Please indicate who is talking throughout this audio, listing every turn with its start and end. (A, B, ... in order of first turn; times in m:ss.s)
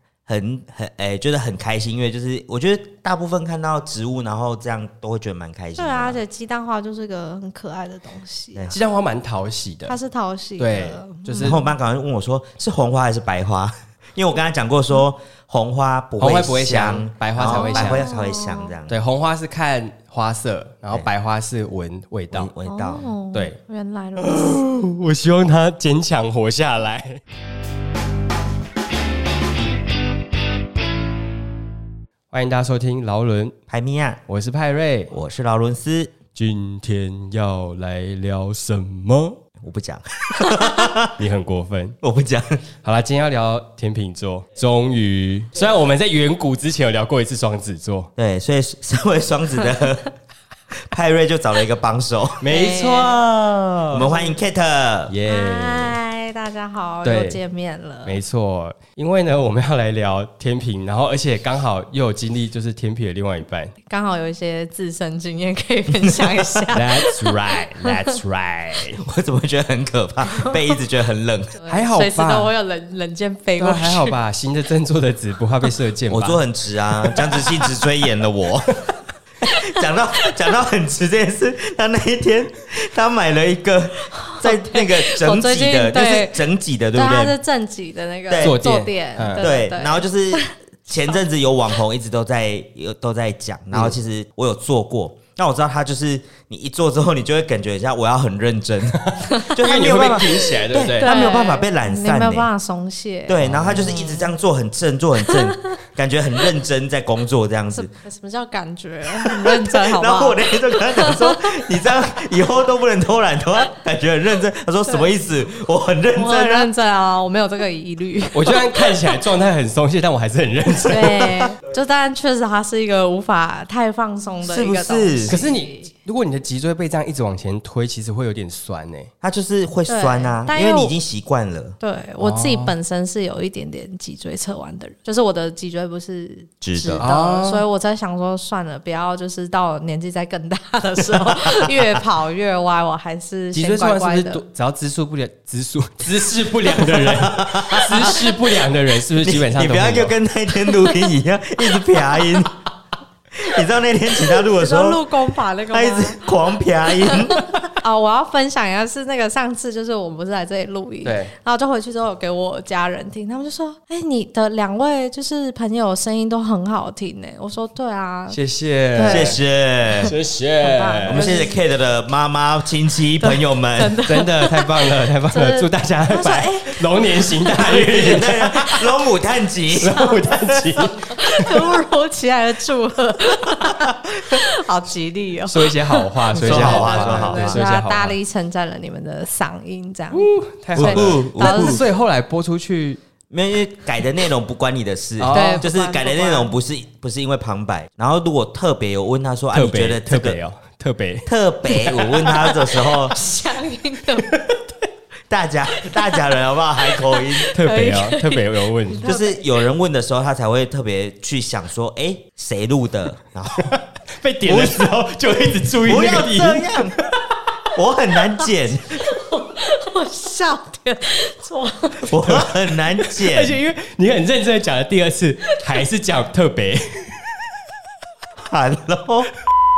0:00.3-0:06.2 A
0:05.8-0:08.7 B
0:08.7-0:10.0 C
0:09.9-0:11.6 B
0:10.6-0:11.6 C
0:11.4-0:19.0 A
0:16.2-0:18.1 C
0:17.4-0:18.7 B
0:18.9-0:22.5 C
0:22.3-0:23.1 A
0:22.6-0:24.6 B
0:24.2-0:27.2 C
0:32.3-0:33.6 C
0:33.7-0:34.2 A
0:34.3-0:35.1 C
0:35.1-0:36.1 A
0:36.3-0:39.4 C
0:39.6-0:41.2 A
0:41.2-0:42.0 C
0:42.0-0:42.6 A
0:42.8-0:48.1 C
0:48.2-0:50.1 A
0:50.9-0:55.1 A
0:52.4-0:53.2 C
0:52.5-0:53.2 B
0:53.8-0:54.0 C
0:54.0-0:54.4 B
0:55.1-0:56.0 C
0:55.3-0:58.2 B
0:57.0-0:57.4 C
0:58.0-1:03.7 C
1:03.8-1:08.2 B
1:06.0-1:06.4 A
1:06.7-1:09.0 C
1:09.0-1:11.6 A
1:10.3-1:10.6 B
1:11.6-1:14.2 B
1:11.7-1:12.5 C
1:13.6-1:16.4 C
1:16.1-1:18.8 A
1:19.4-1:27.4 A
1:24.1-1:26.4 B
1:26.9-1:30.5 B
1:28.3-1:28.6 A
1:28.4-1:29.5 C
1:29.4-1:42.5 A
1:38.9-1:41.1 C
1:41.0-1:44.3 B
1:43.3-1:47.9 A
1:43.4-1:43.9 C
1:45.3-1:45.8 B
1:47.7-1:51.6 B
1:49.2-1:56.7 A
1:56.2-1:58.9 B
1:58.3-2:01.4 C
2:00.8-2:05.9 B
2:04.4-2:05.4 A
2:05.3-2:09.1 C
2:09.2-2:11.8 A
2:09.9-2:10.9 B
2:11.8-2:24.4 B
2:12.2-2:12.7 C
2:16.6-2:17.0 A
2:17.0-2:17.6 C
2:21.1-2:22.0 A
2:23.5-2:30.2 C
2:26.6-2:28.4 A
2:29.2-2:32.6 A
2:30.7-2:30.9 B
2:33.4-2:35.2 A
2:34.2-2:48.4 B
2:35.7-2:37.7 A
2:41.0-2:41.3 C
2:48.3-2:49.4 C
2:48.9-2:49.4 B
2:49.0-2:50.1 A
2:50.0-2:51.3 C
2:50.6-2:51.6 B
2:51.1-2:54.0 A
2:53.2-2:58.8 B
2:54.0-2:58.5 C
2:57.6-3:00.5 A
2:59.7-3:01.6 C
2:59.9-3:00.2 B
3:00.8-3:11.8 B
3:05.5-3:08.2 C
3:06.4-3:07.6 A
3:10.1-3:13.0 C
3:10.8-3:11.8 A
3:13.3-3:20.4 A
3:15.2-3:15.6 C
3:15.3-3:16.5 B
3:19.5-3:21.3 C
3:21.2-3:23.2 A
3:21.7-3:24.3 B
3:24.2-3:24.6 C
3:25.3-3:27.6 A
3:27.2-3:29.4 B
3:27.5-3:29.1 C
3:29.0-3:33.8 A
3:33.6-3:37.1 C
3:34.4-3:35.0 A
3:35.8-3:37.0 A
3:37.7-3:39.0 A
3:39.0-3:42.2 B
3:42.0-3:43.6 A
3:42.2-3:42.5 C
3:43.2-3:47.4 C
3:48.4-3:49.3 A